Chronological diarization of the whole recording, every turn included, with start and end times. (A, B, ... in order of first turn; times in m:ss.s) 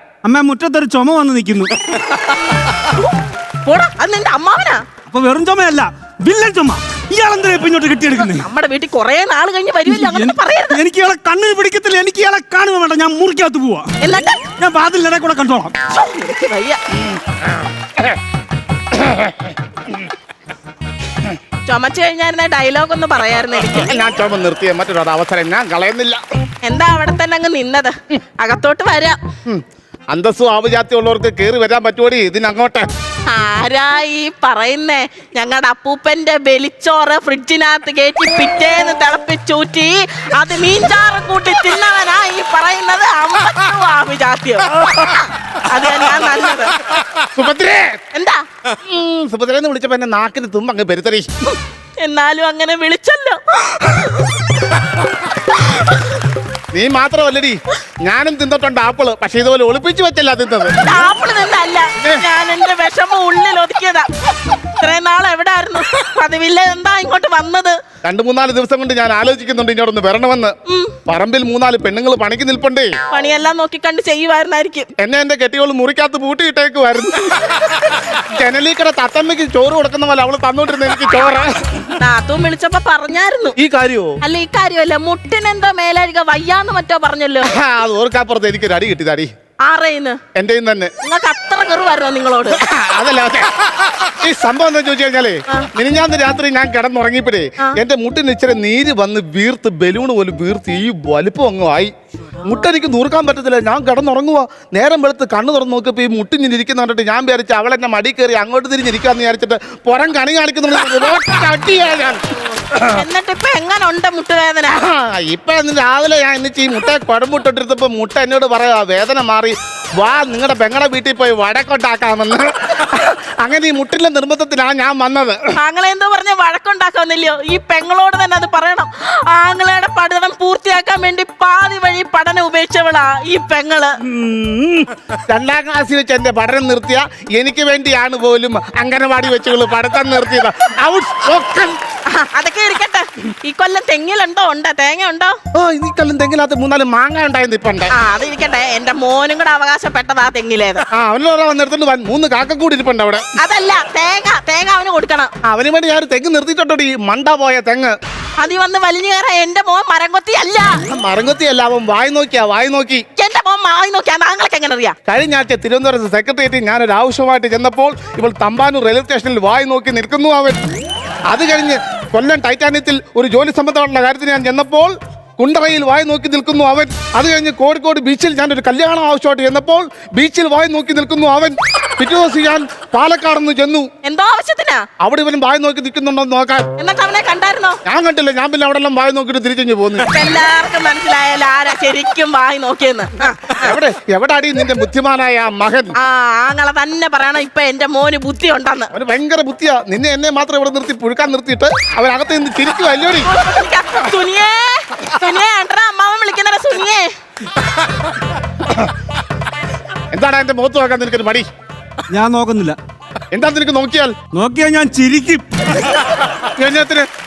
0:00.2-0:01.7 A
0:02.1-0:04.8 B
0:05.1-0:08.4 A
0:08.3-0:10.8 B
0:09.9-0:13.9 A
0:14.0-0:14.5 B
0:14.6-0:15.7 A
0:15.9-0:16.8 B
0:18.9-0:19.5 C
0:21.6-0:23.9 B
0:23.7-0:26.2 C
0:26.6-0:29.2 B
0:29.4-0:32.9 C
0:33.3-0:46.8 B
0:47.1-0:48.0 C
0:48.1-0:48.4 B
0:48.8-0:51.3 C
0:51.5-0:54.0 B
0:56.7-1:00.8 C
1:00.8-1:07.8 B
1:08.0-1:10.5 C
1:10.7-1:11.0 B
1:11.0-1:12.9 C
1:13.1-1:14.9 B
1:15.0-1:21.9 C
1:22.0-1:23.6 B
1:23.6-1:24.1 C
1:24.2-1:27.5 B
1:27.4-1:29.3 C
1:29.6-1:30.2 B
1:30.3-1:30.9 C
1:31.0-1:32.6 B
1:32.6-1:52.2 C
1:52.7-1:53.0 C
1:52.8-1:54.8 B
1:54.7-2:05.4 C
2:05.5-2:13.9 B
2:14.0-2:21.8 C
2:22.1-2:25.4 B
2:25.5-2:27.9 C
2:27.9-2:30.8 B
2:30.9-2:33.2 C
2:33.4-2:35.3 B
2:35.4-2:37.9 C
2:38.4-2:40.8 B
2:40.9-2:43.0 C
2:43.1-2:45.0 B
2:45.1-2:50.6 C
2:51.3-3:03.9 C
3:04.0-3:04.8 B
3:05.0-3:06.7 C
3:06.8-3:07.8 B
3:07.8-3:10.1 C
3:10.1-3:13.7 B
3:13.5-3:15.9 C
3:15.9-3:18.9 B
3:18.9-3:23.3 C
3:23.2-3:27.1 B
3:28.6-3:28.9 C
3:30.1-3:31.4 C
3:32.1-3:32.8 A
3:33.3-3:34.2 C
3:34.3-3:35.9 A
3:36.5-3:37.1 C